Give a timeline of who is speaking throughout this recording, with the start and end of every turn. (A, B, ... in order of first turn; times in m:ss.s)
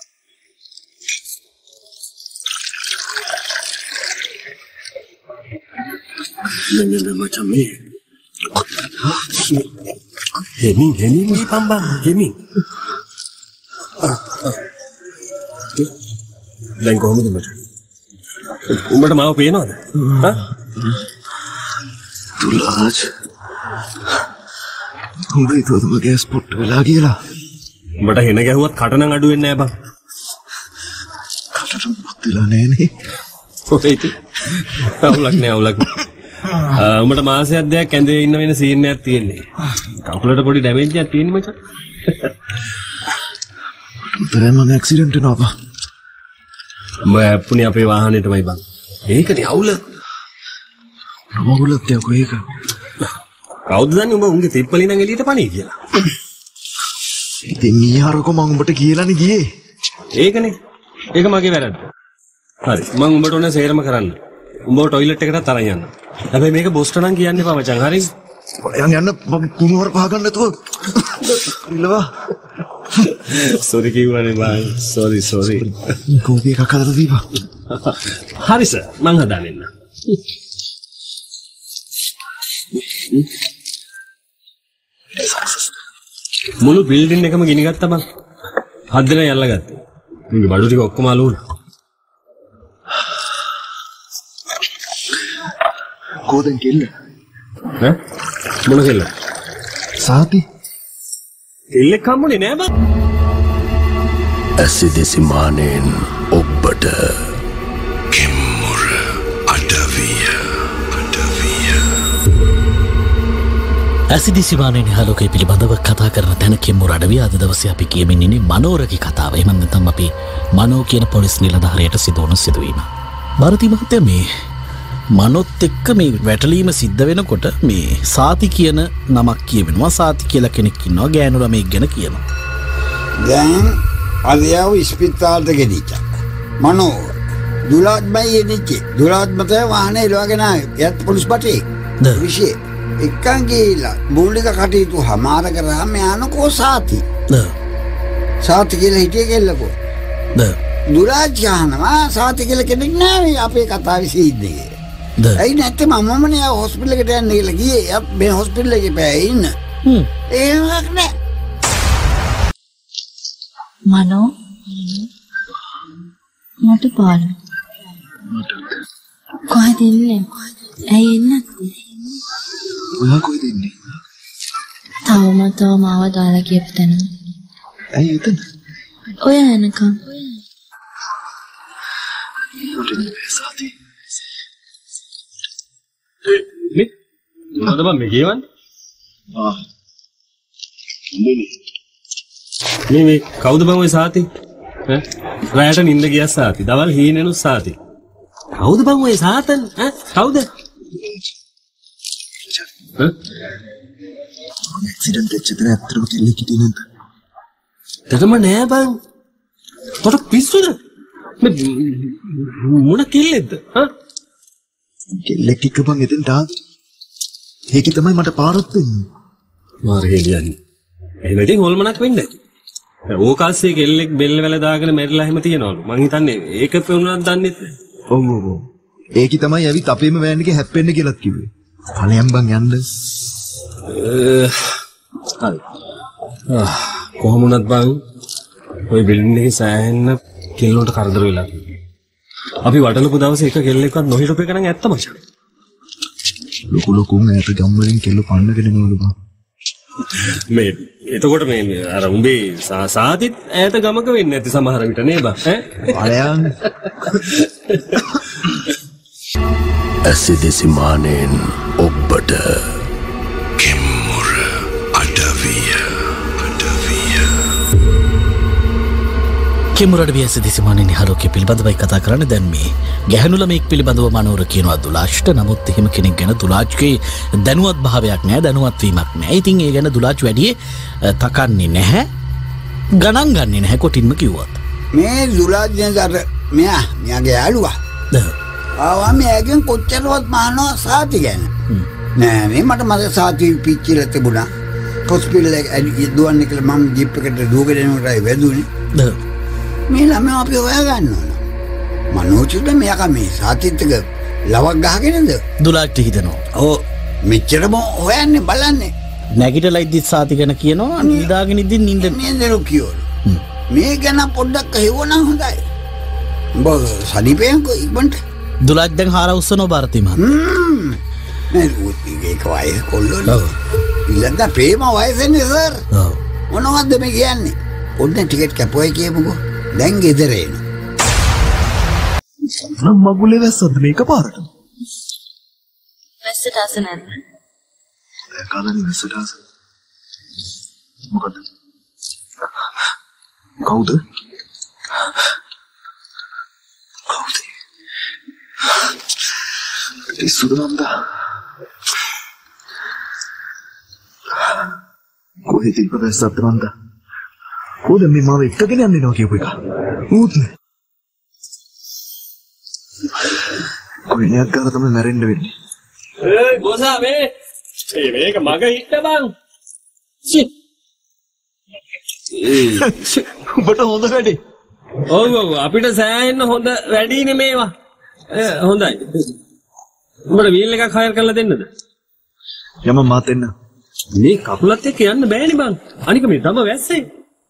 0:06.5-0:07.8 A
0:10.6-0:12.4 A
0:14.0-0:14.6 A
0:16.8-0:17.6 A
0:18.7-0:20.4 A
0:20.0-0:21.0 B
0:22.4-0:23.1 B
0:25.3-0:27.2 B
0:28.0-0:29.7 A
0:31.5-0:32.9 B
0:33.7-0:36.1 A
0:36.7-0:39.5 A
0:40.0-0:41.6 A
0:44.1-0:45.6 B
0:47.0-0:49.8 A
0:51.3-0:52.5 B
0:53.7-0:56.0 A
0:57.5-0:59.5 B
1:00.2-1:00.6 A
1:01.1-1:01.8 A
1:02.6-1:04.2 A
1:04.7-1:08.1 A
1:08.6-1:12.1 B
1:13.0-1:15.8 A
1:16.1-1:17.3 B
1:17.7-1:19.7 A
1:25.2-1:25.7 B
1:26.6-1:28.0 A
1:28.9-1:29.8 A
1:30.3-1:31.4 A
1:36.3-1:36.9 B
1:38.7-1:39.1 A
1:40.0-1:40.4 B
1:41.7-1:42.7 A
1:44.6-1:47.3 C
1:48.1-1:51.8 C
1:54.1-2:02.9 D
2:03.4-2:04.3 D
2:05.2-2:12.2 D
2:13.2-2:16.0 E
2:16.6-2:17.1 E
2:17.7-2:27.0 E
2:28.4-2:29.7 E
2:30.9-2:34.8 E
2:35.4-2:39.5 E
2:40.3-2:41.1 E
2:43.9-2:45.1 F
2:46.6-2:47.4 F
2:48.3-2:48.8 B
2:49.5-2:51.8 F
2:52.9-2:53.8 B
2:55.1-2:57.1 F
2:57.9-2:58.4 B
2:59.2-3:00.2 F
3:02.6-3:03.7 B
3:06.4-3:06.9 A
3:07.5-3:08.4 A
3:12.9-3:14.3 A
3:14.9-3:17.8 A
3:18.6-3:20.5 A
3:24.7-3:26.8 B
3:28.1-3:29.0 A
3:30.0-3:30.8 A
3:31.4-3:33.9 A
3:35.2-3:36.6 B
3:37.7-3:39.1 B
3:39.8-3:40.6 A
3:41.2-3:42.3 A
3:43.1-3:47.7 A
3:48.1-3:52.9 B
3:53.9-3:54.8 A
3:56.5-3:58.0 A
3:58.9-4:01.6 A
4:02.6-4:05.2 A
4:06.7-4:09.2 B
4:10.1-4:16.0 A
4:15.9-4:16.6 B
4:17.1-4:18.1 A
4:20.0-4:22.7 C
4:23.6-4:27.3 C
4:29.8-4:42.1 D
4:43.0-4:44.6 D
4:44.9-4:47.8 E
4:48.1-4:48.4 D
4:48.8-4:51.5 E
4:52.2-4:54.5 E
4:55.1-4:58.7 E
4:58.9-4:59.2 D
4:59.9-5:01.4 E
5:02.1-5:05.4 E
5:05.6-5:06.4 D
5:06.6-5:08.9 E
5:09.4-5:12.2 D
5:11.0-5:11.3 E
5:12.0-5:13.1 E
5:13.7-5:15.6 E
5:16.6-5:18.2 E
5:18.6-5:20.4 D
5:20.2-5:21.0 E
5:21.5-5:23.4 E
5:23.3-5:23.6 D
5:24.1-5:25.8 E
5:25.9-5:26.2 D
5:26.5-5:30.6 E
5:32.5-5:34.5 B
5:36.2-5:37.2 F
5:38.3-5:39.4 B
5:41.1-5:41.4 B
5:43.6-5:44.0 B
5:47.1-5:47.5 B
5:50.1-5:51.0 B
5:55.5-5:56.7 B
5:57.8-6:00.5 B
6:04.1-6:05.5 B
6:06.2-6:07.3 A
6:07.9-6:09.3 A
6:12.4-6:12.8 A
6:12.6-6:14.4 B
6:15.0-6:17.7 A
6:18.3-6:19.3 A
6:20.3-6:21.7 A
6:22.8-6:23.5 B
6:24.2-6:27.1 A